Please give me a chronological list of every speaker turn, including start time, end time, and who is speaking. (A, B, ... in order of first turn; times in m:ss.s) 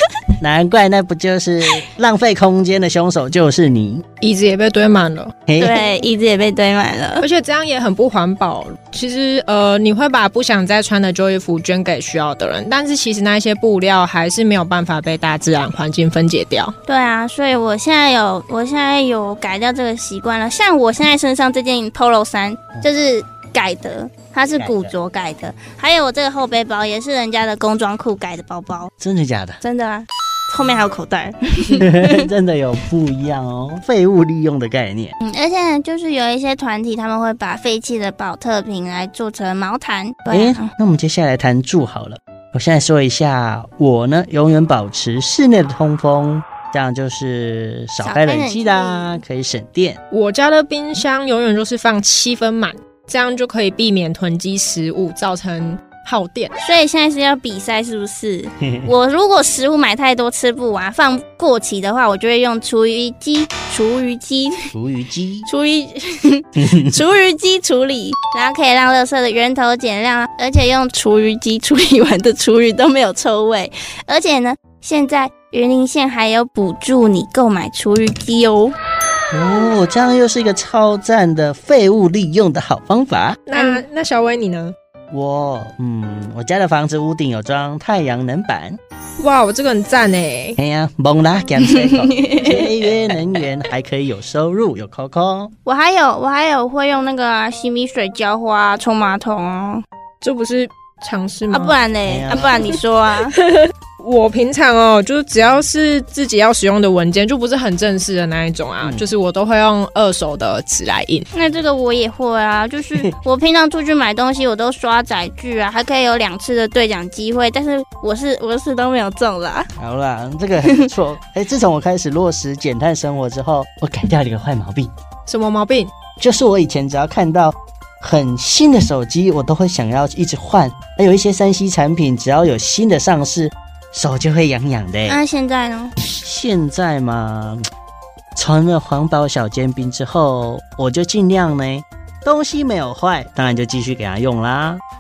0:00.4-0:04.0 A
0:04.2-0:05.3 B
0:05.5-0:05.8 A
0:05.6-0:07.3 C
0:07.2-0:16.7 B
0:16.8-0:28.9 C
0:24.5-0:24.9 A
0:29.0-0:29.6 A
0:29.6-0:32.3 C
0:31.7-0:35.1 A
0:35.2-0:40.7 C
0:40.3-0:50.0 A
0:48.0-0:49.2 C
0:50.1-0:56.5 B
0:56.6-1:04.7 C
0:58.7-0:58.9 A
1:04.7-1:05.5 A
1:05.5-1:18.7 C
1:06.6-1:06.9 A
1:19.3-1:23.4 A
1:23.5-1:24.7 B
1:23.5-1:23.8 C
1:25.1-1:28.8 A
1:29.2-1:30.6 B
1:30.6-1:35.5 A
1:31.6-1:32.8 C
1:35.6-1:39.8 C
1:40.2-1:41.8 B
1:41.5-1:43.4 C
1:42.0-1:42.7 A
1:42.4-1:42.8 B
1:43.4-1:51.2 B
1:51.3-1:59.7 C
1:59.8-2:04.9 A
2:00.6-2:00.9 C
2:05.3-2:05.9 B
2:06.2-2:15.2 A
2:15.0-2:15.9 C
2:16.1-2:17.6 A
2:18.3-2:24.8 A